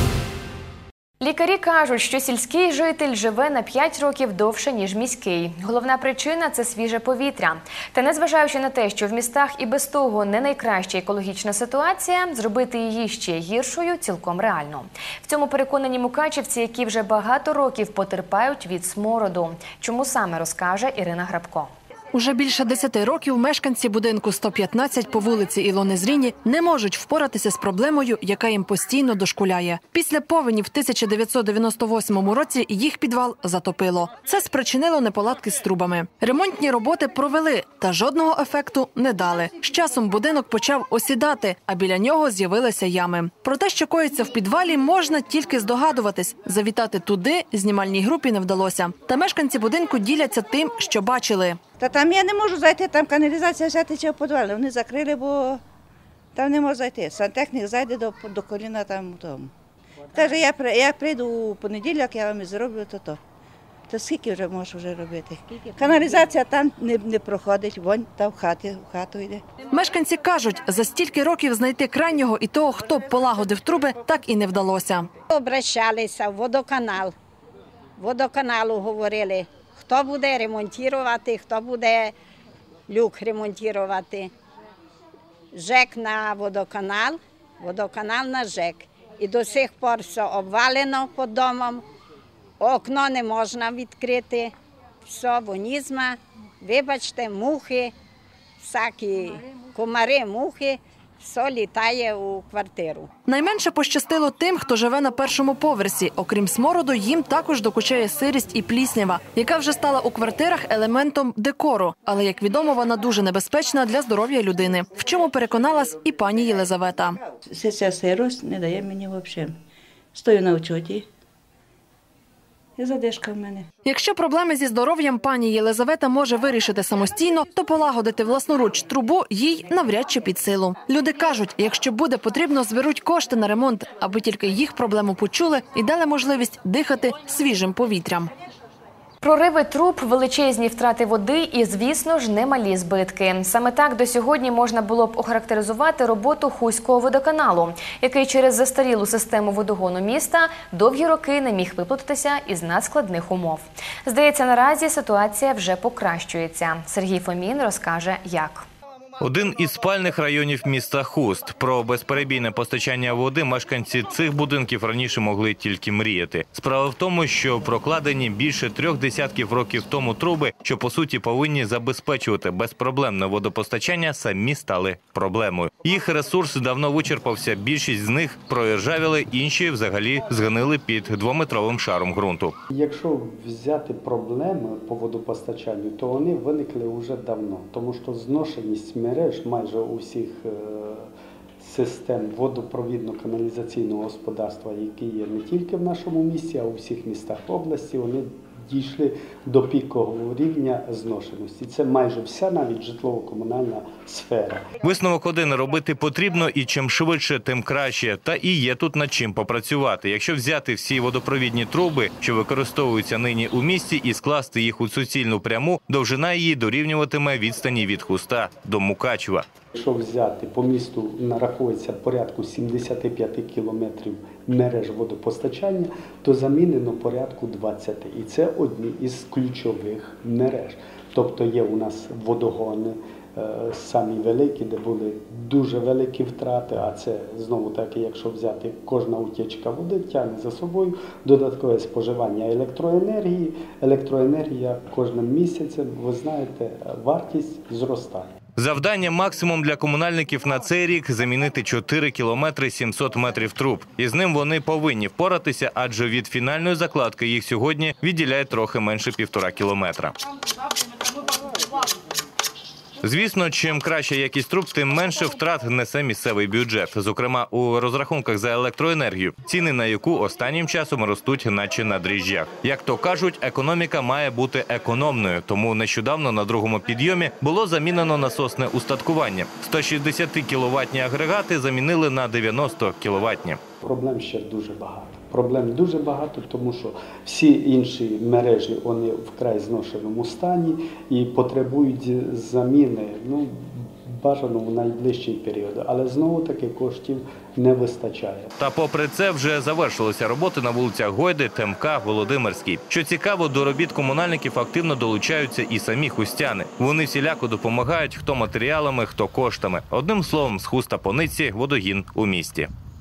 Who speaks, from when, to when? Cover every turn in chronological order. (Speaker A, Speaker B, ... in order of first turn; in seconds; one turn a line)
Speaker A: 1.2-21.7
Speaker B: 22.1-51.6
Speaker C: 51.8-55.6
Speaker C: 56.4-59.5
Speaker C: 60.1-63.2
Speaker C: 63.9-69.4
Speaker B: 69.7-75.1
Speaker D: 75.3-77.1
Speaker D: 78.0-82.1
Speaker D: 82.9-84.3
Speaker D: 85.5-91.8
Speaker D: 92.6-94.5
Speaker D: 95.1-97.9
Speaker D: 98.6-103.1
Speaker B: 103.3-117.2
Speaker C: 117.5-119.5
Speaker C: 120.2-121.0
Speaker C: 122.8-123.7
Speaker B: 123.8-138.3
Speaker A: 139.2-158.7
Speaker E: 159.2-182.6
Speaker F: 182.7-204.7
Speaker E: 204.8-219.5
Speaker F: 219.7-248.3
Speaker E: 248.6-260.2
Speaker E: 263.0-283.6
Speaker F: 283.8-298.5
Speaker E: 298.6-312.7